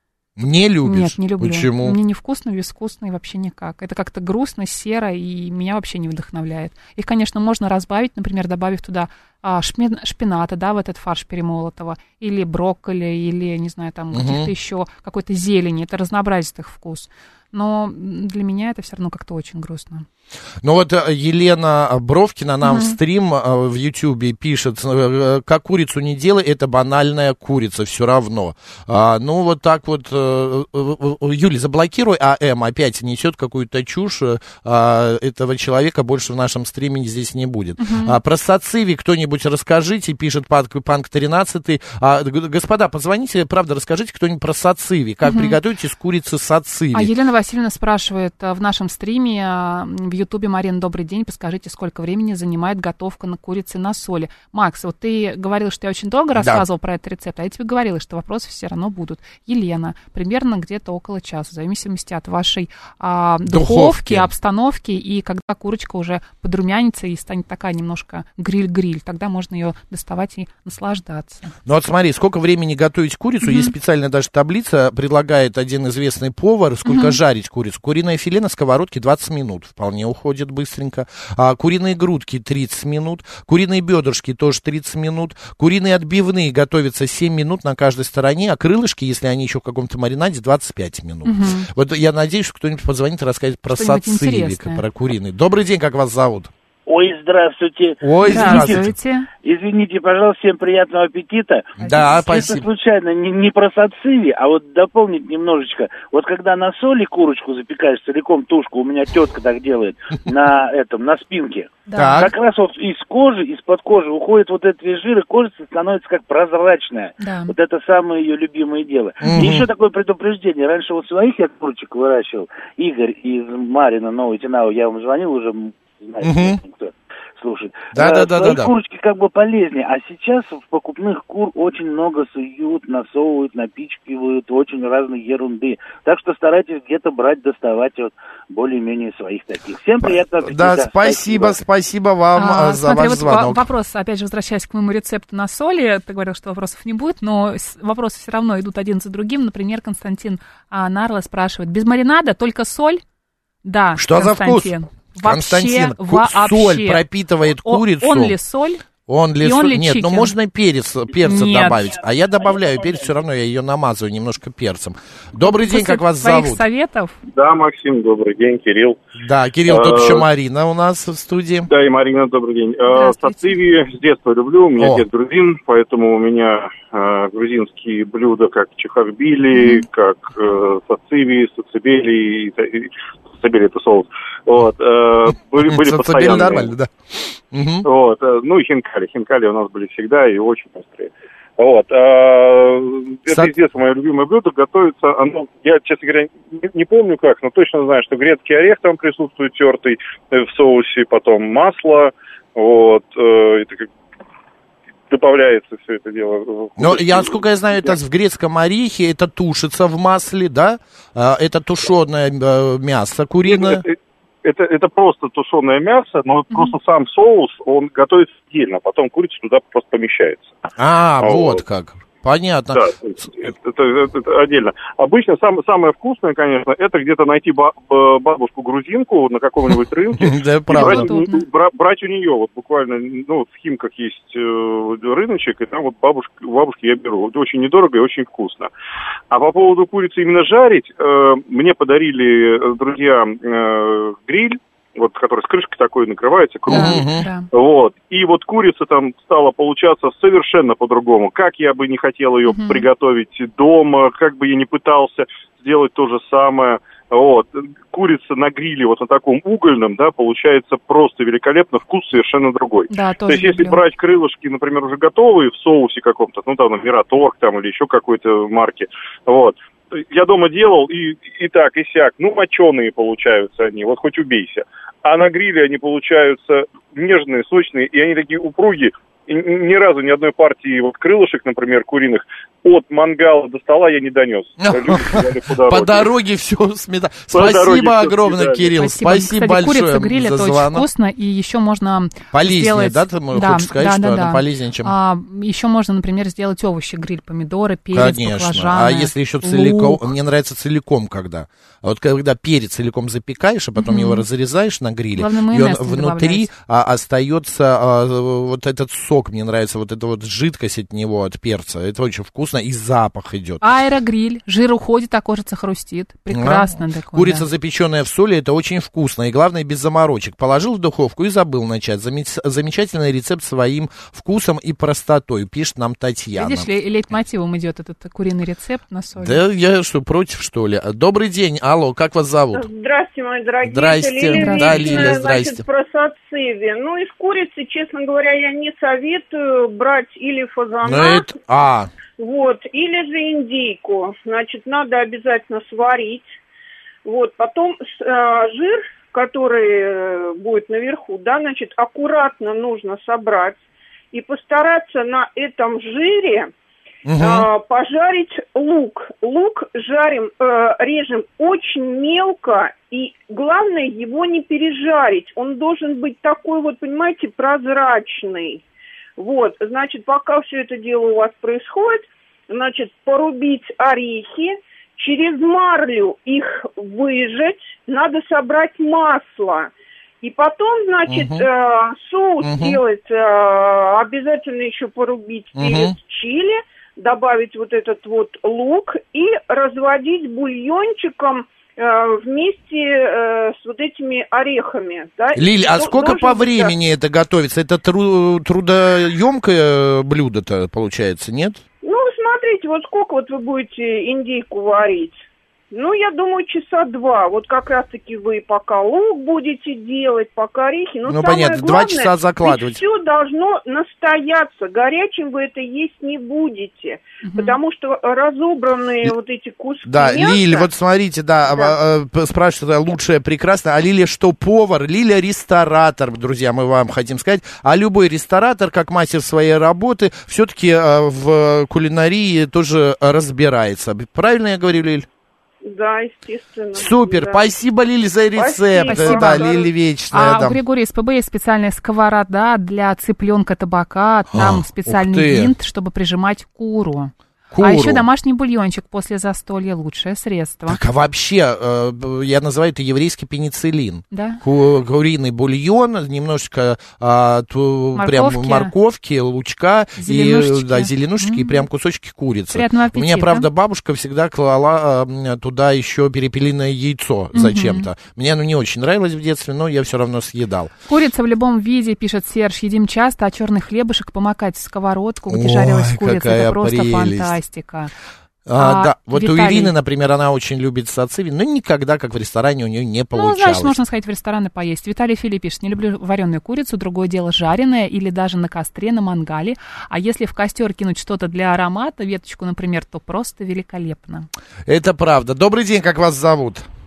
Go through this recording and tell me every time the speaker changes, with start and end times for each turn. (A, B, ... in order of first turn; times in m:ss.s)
0:00.4-0:02.0 A
0:00.8-0:20.1 B
0:14.1-0:14.5 A
0:20.6-0:47.1 A
0:22.6-0:23.0 B
0:37.8-0:38.2 B
0:45.2-0:45.6 B
0:46.9-1:11.5 B
0:56.4-0:56.6 A
1:03.5-1:04.3 A
1:11.7-1:36.5 A
1:13.4-1:13.7 B
1:16.9-1:17.2 B
1:31.2-1:31.7 B
1:33.7-1:34.8 B
1:36.9-1:38.8 C
1:38.0-1:38.9 A
1:38.2-1:39.3 B
1:39.4-2:21.6 C
1:41.8-1:42.7 A
1:41.8-1:42.3 B
1:51.9-1:52.3 B
1:52.0-1:52.3 A
1:57.2-1:57.5 B
1:59.2-1:59.7 A
2:06.2-2:06.6 A
2:07.9-2:08.7 A
2:20.0-2:23.6 A
2:22.4-2:33.0 B
2:33.6-2:37.0 B
2:34.0-2:38.4 A
2:37.6-2:38.8 B
2:39.1-2:46.6 A
2:39.4-2:40.3 B
2:41.2-2:41.9 B
2:45.4-2:47.2 B
2:47.3-2:49.0 D
2:49.2-2:51.7 A
2:49.7-2:50.3 D
2:51.7-3:06.7 D
2:52.9-2:53.6 B
2:54.8-2:55.0 A
2:59.6-2:59.8 B
3:05.6-3:06.9 A
3:07.5-3:07.9 A
3:07.8-3:23.9 D
3:25.1-3:28.0 D
3:26.8-3:33.8 A
3:33.5-3:40.6 D
3:40.8-3:42.8 A
3:41.2-3:41.6 D
3:42.7-3:58.7 D
3:50.2-3:51.1 A
3:50.7-3:51.4 B
3:59.3-4:46.1 D
4:06.7-4:07.2 A
4:06.7-4:07.5 B
4:12.5-4:12.9 B
4:22.9-4:23.8 B
4:44.6-4:50.9 A
4:47.3-4:48.7 D
4:48.8-5:00.1 B
4:52.3-4:54.9 A
4:57.9-5:13.6 A
5:03.8-5:04.2 B
5:05.2-5:06.5 B
5:13.6-5:17.5 B
5:16.3-5:26.7 A
5:26.4-5:29.4 B
5:29.2-5:32.7 A
5:32.5-5:41.3 E
5:33.6-5:35.6 A
5:34.4-5:35.1 B
5:40.8-5:41.9 A
5:42.1-5:46.3 E
5:47.0-5:56.5 E
5:57.1-5:57.5 A
5:57.2-6:08.6 E
6:09.2-6:36.7 E
6:21.1-6:21.5 A
6:22.4-6:22.8 A
6:25.6-6:26.0 A
6:35.4-6:41.6 A
6:41.8-6:45.2 E
6:45.7-7:00.7 E
6:51.1-6:52.8 A
6:57.2-6:57.6 B
6:59.9-7:15.1 A
7:15.6-7:17.4 E
7:16.8-7:20.6 A
7:18.4-7:19.7 E
7:18.9-7:19.5 B
7:20.1-7:30.8 B
7:24.3-7:25.5 A
7:27.5-7:28.1 A
7:30.7-7:50.7 A
7:34.1-7:34.4 B
7:38.0-7:38.7 B
7:40.0-7:41.6 B
7:42.5-7:43.5 B
7:47.3-7:47.9 B
7:50.9-7:57.9 B
7:55.3-7:57.4 A
7:58.5-8:03.8 A
7:58.6-7:59.7 B
8:03.1-8:14.3 B
8:14.7-8:16.7 A